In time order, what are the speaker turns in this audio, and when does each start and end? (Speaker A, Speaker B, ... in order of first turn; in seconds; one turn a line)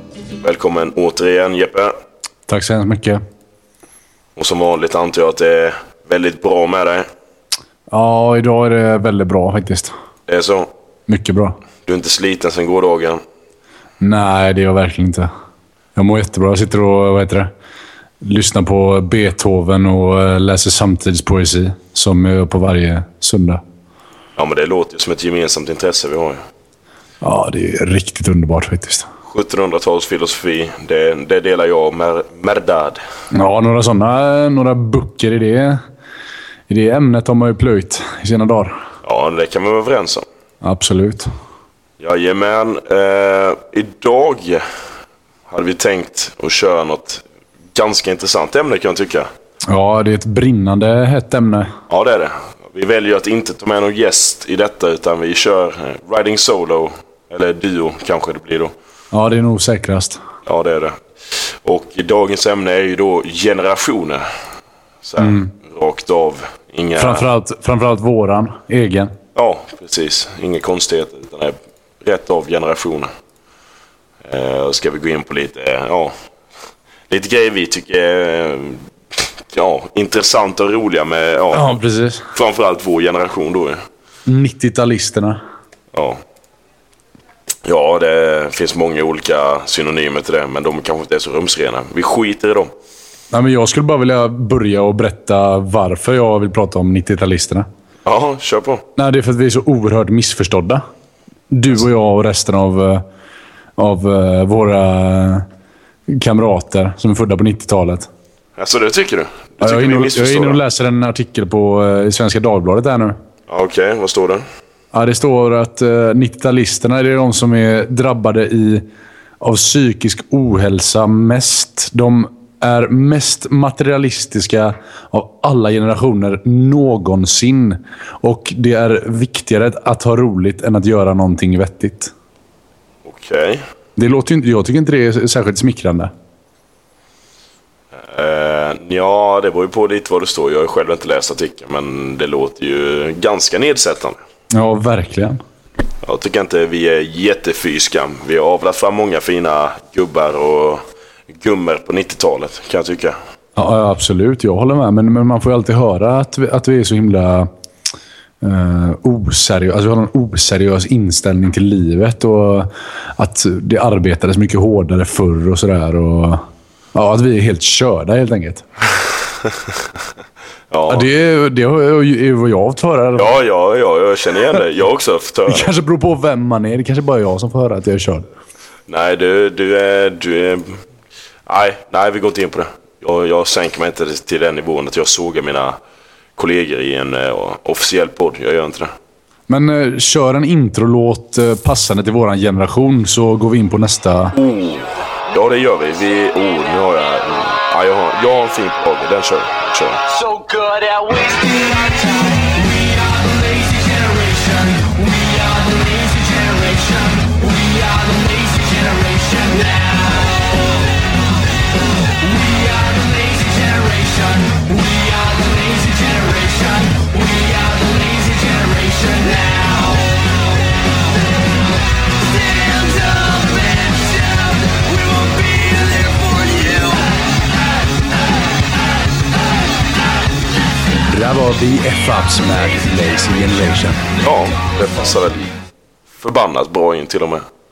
Speaker A: 0.4-1.9
Speaker B: 2.5-3.2
Speaker A: 4.3-7.1
Speaker B: 7.9-9.9
Speaker A: 10.3-10.7
Speaker B: 11.1-11.6
Speaker A: 11.8-13.2
Speaker B: 14.0-15.3
Speaker B: 15.9-17.5
Speaker B: 18.2-23.6
Speaker A: 24.4-26.4
Speaker B: 27.2-29.1
Speaker A: 29.3-33.0
Speaker B: 33.3-35.8
Speaker B: 36.7-38.8
Speaker A: 39.0-40.2
Speaker B: 40.6-41.3
Speaker A: 42.0-44.6
Speaker A: 45.5-47.2
Speaker A: 47.7-49.3
Speaker B: 49.7-51.7
Speaker A: 51.9-58.7
Speaker B: 59.1-60.2
Speaker A: 60.5-61.0
Speaker A: 61.6-64.2
Speaker A: 65.0-67.3
Speaker B: 65.2-65.5
Speaker B: 67.0-69.1
Speaker A: 69.3-73.1
Speaker A: 74.2-76.1
Speaker A: 77.1-81.7
Speaker B: 81.5-82.2
Speaker A: 82.3-83.8
Speaker B: 84.3-85.4
Speaker A: 85.9-86.2
Speaker A: 87.6-92.7
Speaker B: 93.3-97.7
Speaker A: 98.0-98.8
Speaker B: 99.0-100.8
Speaker B: 101.5-103.0
Speaker B: 103.8-105.4
Speaker B: 106.1-108.1
Speaker A: 108.6-110.6
Speaker B: 109.6-113.2
Speaker A: 113.5-114.4
Speaker B: 114.9-118.8
Speaker B: 119.4-132.1
Speaker A: 133.0-133.6
Speaker B: 134.0-136.1
Speaker A: 137.9-144.2
Speaker B: 144.5-145.4
Speaker A: 146.0-153.2
Speaker B: 153.6-157.5
Speaker B: 158.4-168.6
Speaker A: 170.7-171.1
Speaker B: 170.9-173.3
Speaker A: 173.2-175.7
Speaker B: 175.5-178.2
Speaker A: 178.9-180.8
Speaker A: 181.5-185.8
Speaker A: 186.4-188.9
Speaker B: 189.5-194.3
Speaker A: 194.3-200.0
Speaker C: 200.1-210.4
Speaker C: 212.2-220.1
Speaker C: 222.3-227.2
Speaker B: 231.1-234.0
Speaker A: 234.2-235.5
Speaker A: 236.2-237.4